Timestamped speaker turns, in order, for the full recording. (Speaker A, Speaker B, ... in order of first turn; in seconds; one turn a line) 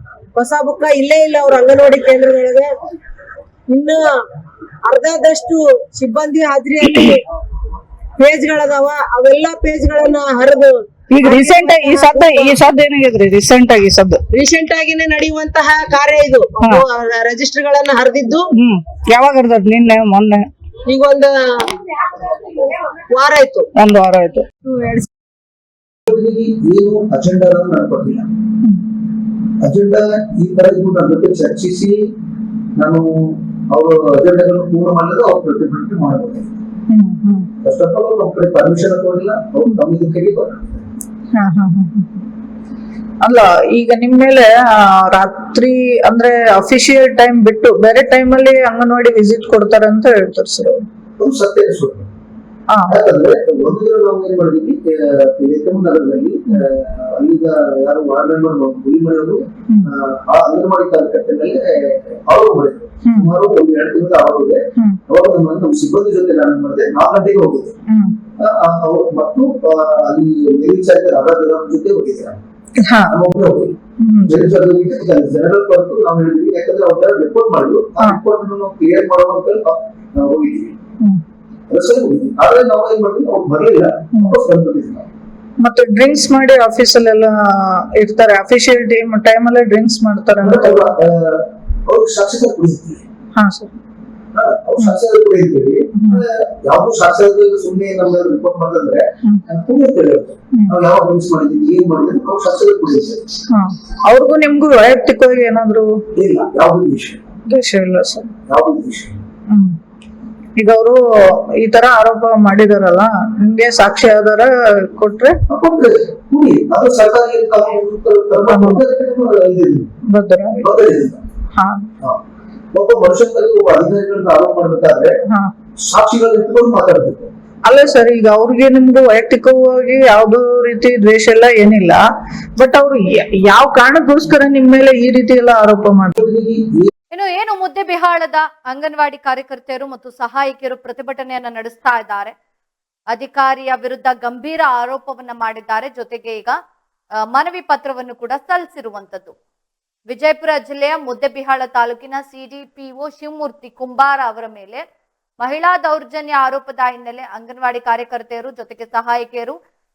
Speaker A: 0.4-2.7
Speaker A: 3.7-4.1
Speaker A: 4.8-7.2
Speaker A: 8.2-12.6
Speaker B: 11.1-14.2
Speaker A: 14.3-18.5
Speaker B: 18.6-20.5
Speaker A: 20.9-23.7
Speaker B: 23.8-24.4
Speaker A: 24.6-25.1
Speaker C: 26.1-28.3
Speaker C: 29.6-32.0
Speaker C: 32.8-33.1
Speaker C: 33.7-36.6
Speaker B: 36.9-37.5
Speaker C: 37.6-40.9
Speaker B: 41.4-42.2
Speaker B: 43.2-50.8
Speaker C: 51.2-52.1
Speaker C: 52.9-67.7
Speaker C: 68.4-72.4
Speaker C: 73.1-73.8
Speaker C: 74.3-80.8
Speaker C: 81.7-85.1
Speaker B: 85.6-90.9
Speaker C: 90.4-93.0
Speaker B: 93.4-93.8
Speaker C: 94.3-103.3
Speaker B: 103.5-106.0
Speaker C: 106.2-107.3
Speaker B: 107.5-108.3
Speaker C: 108.5-109.2
Speaker B: 110.6-115.4
Speaker C: 115.5-119.9
Speaker B: 118.5-118.8
Speaker B: 120.1-120.6
Speaker C: 120.6-121.2
Speaker B: 121.6-121.8
Speaker C: 122.7-125.1
Speaker C: 125.8-127.3
Speaker B: 127.7-132.0
Speaker B: 132.6-136.2
Speaker C: 136.2-136.9
Speaker D: 137.1-142.3
Speaker D: 143.1-146.6
Speaker D: 147.3-149.3
Speaker D: 150.1-154.8
Speaker D: 155.4-159.6